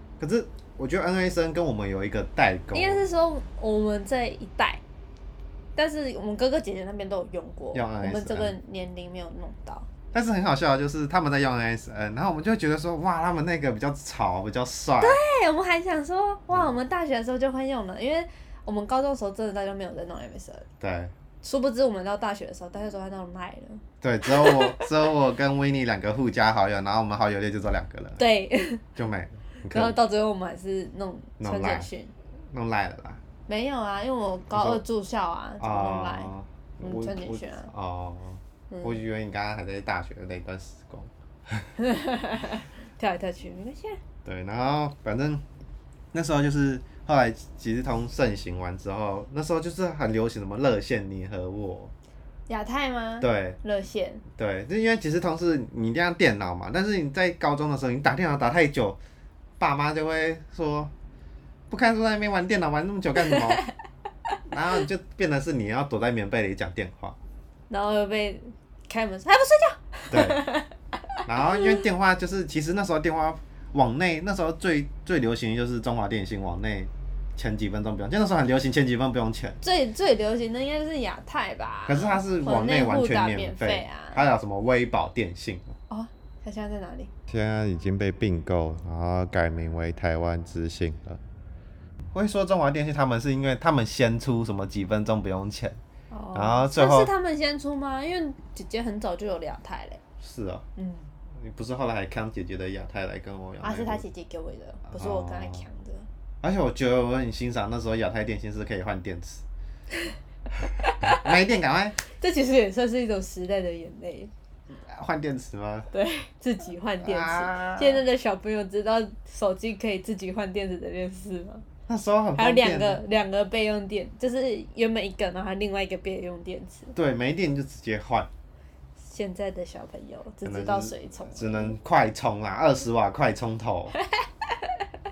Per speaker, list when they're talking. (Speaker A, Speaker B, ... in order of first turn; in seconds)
Speaker A: 0.2-3.0, 7.7-8.5, 10.1-15.2, 20.8-21.1, 24.0-28.2, 29.0-30.0, 31.4-31.9, 32.5-33.2, 34.5-34.8, 35.6-41.7, 44.2-45.4, 46.1-51.9, 53.2-53.6, 54.4-59.0, 59.6-60.9, 61.7-63.6, 64.5-67.2, 70.1-70.5, 71.3-79.6, 81.9-85.8, 87.3-91.2, 92.1-95.8, 96.3-97.1, 100.2-100.7, 101.3-104.0, 104.9-105.7, 106.4-109.4, 111.0-112.0, 114.8-115.9, 117.0-118.0, 121.9-123.0, 126.9-128.3, 130.4-133.9
Speaker B: 2.7-4.8, 5.8-9.9, 15.0-20.7, 21.4-24.9, 28.2-28.8, 29.7-32.1, 33.5-37.7, 38.7-39.0, 41.8-44.0, 52.5-54.2, 63.2-63.7, 67.7-70.7, 79.6-84.2, 85.9-87.1, 96.1-100.0, 100.8-101.1, 103.6-106.1, 110.8-111.3, 112.1-114.3, 115.9-121.6, 122.4-126.9, 129.0-131.8, 134.1-134.7